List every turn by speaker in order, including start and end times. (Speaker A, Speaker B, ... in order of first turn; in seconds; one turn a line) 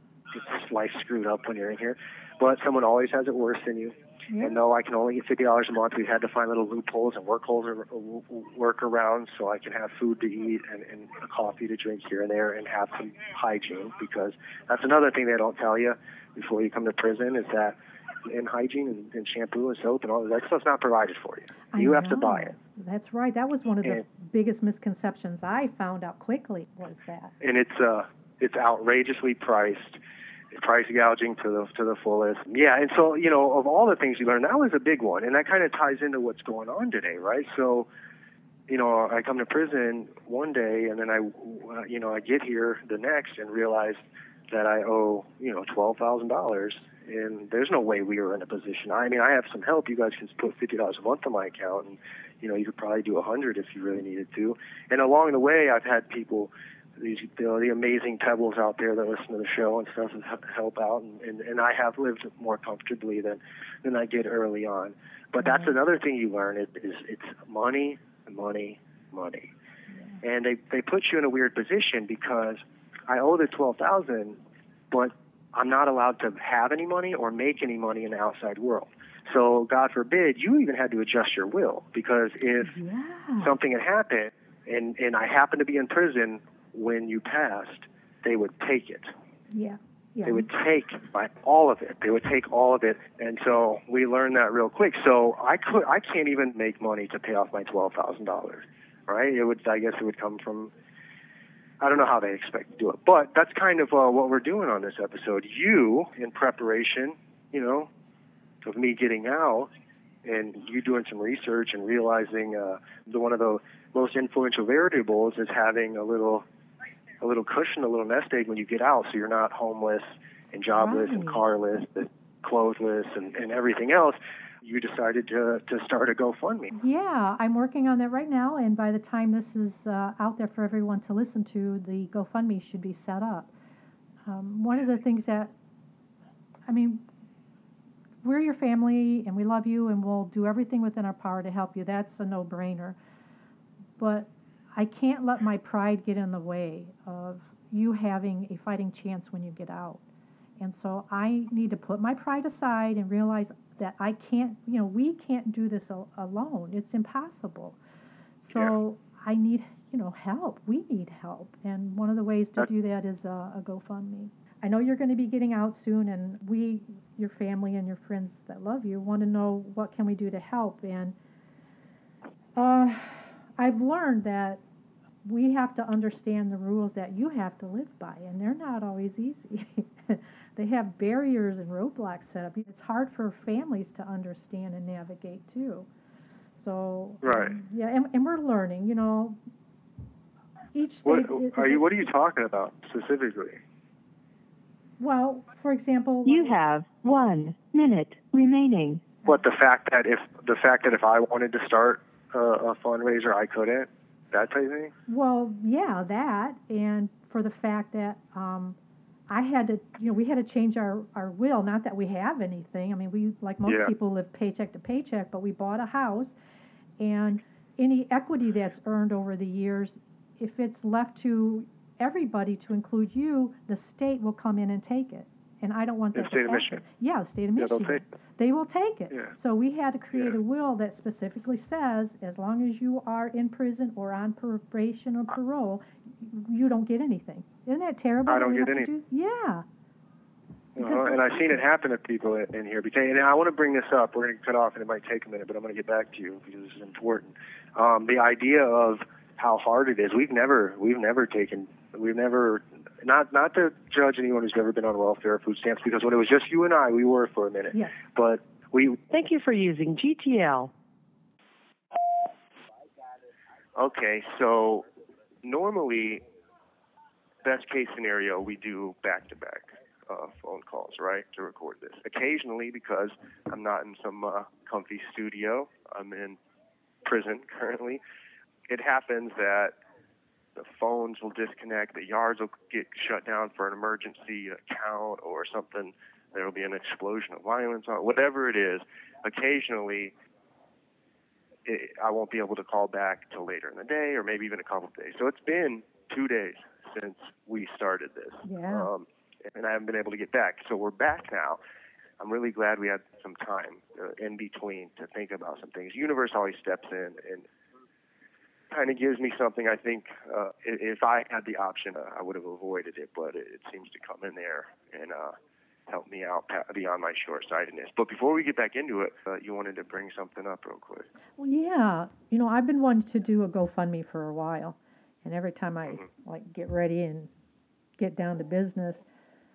Speaker A: 0.3-22.6
Speaker B: 4.3-4.6
Speaker B: 21.7-27.3
Speaker A: 27.4-30.0
Speaker A: 30.5-37.9
Speaker A: 38.7-44.0
Speaker A: 44.5-69.5
Speaker B: 65.4-65.7
Speaker B: 69.9-70.2
Speaker A: 70.2-74.4
Speaker A: 74.9-82.8
Speaker B: 82.6-83.7
Speaker A: 83.4-89.1
Speaker B: 89.5-90.5
Speaker A: 90.2-100.7
Speaker A: 101.8-107.9
Speaker A: 108.6-109.7
Speaker A: 110.2-116.5
Speaker A: 117.2-126.8
Speaker B: 120.8-121.4
Speaker B: 126.7-133.5
Speaker B: 134.2-135.5
Speaker B: 136.7-137.1
Speaker B: 138.2-143.0
Speaker B: 144.0-150.0
Speaker B: 150.6-157.8
Speaker B: 158.4-171.1
Speaker B: 172.6-174.6
Speaker B: 175.2-185.9
Speaker B: 186.6-189.4
Speaker A: 187.2-187.6
Speaker B: 190.7-192.0
Speaker A: 191.0-193.6
Speaker B: 195.0-196.6
Speaker C: 196.2-199.0
Speaker A: 199.2-204.9
Speaker B: 205.1-208.8
Speaker B: 209.3-216.4
Speaker A: 213.7-213.9
Speaker B: 217.0-239.6
Speaker A: 226.1-226.8
Speaker A: 227.6-228.0
Speaker A: 238.3-238.9
Speaker A: 240.8-259.0
Speaker B: 240.8-241.6
Speaker B: 257.7-258.1
Speaker C: 259.1-260.7
Speaker A: 263.8-264.9
Speaker A: 265.4-266.2
Speaker A: 267.4-276.4
Speaker A: 277.0-278.0
Speaker A: 278.7-279.8
Speaker A: 280.5-290.1
Speaker A: 291.6-301.6
Speaker B: 298.4-298.9
Speaker A: 302.2-307.5
Speaker A: 308.7-315.4
Speaker A: 315.9-321.1
Speaker B: 321.4-327.3
Speaker B: 328.0-329.1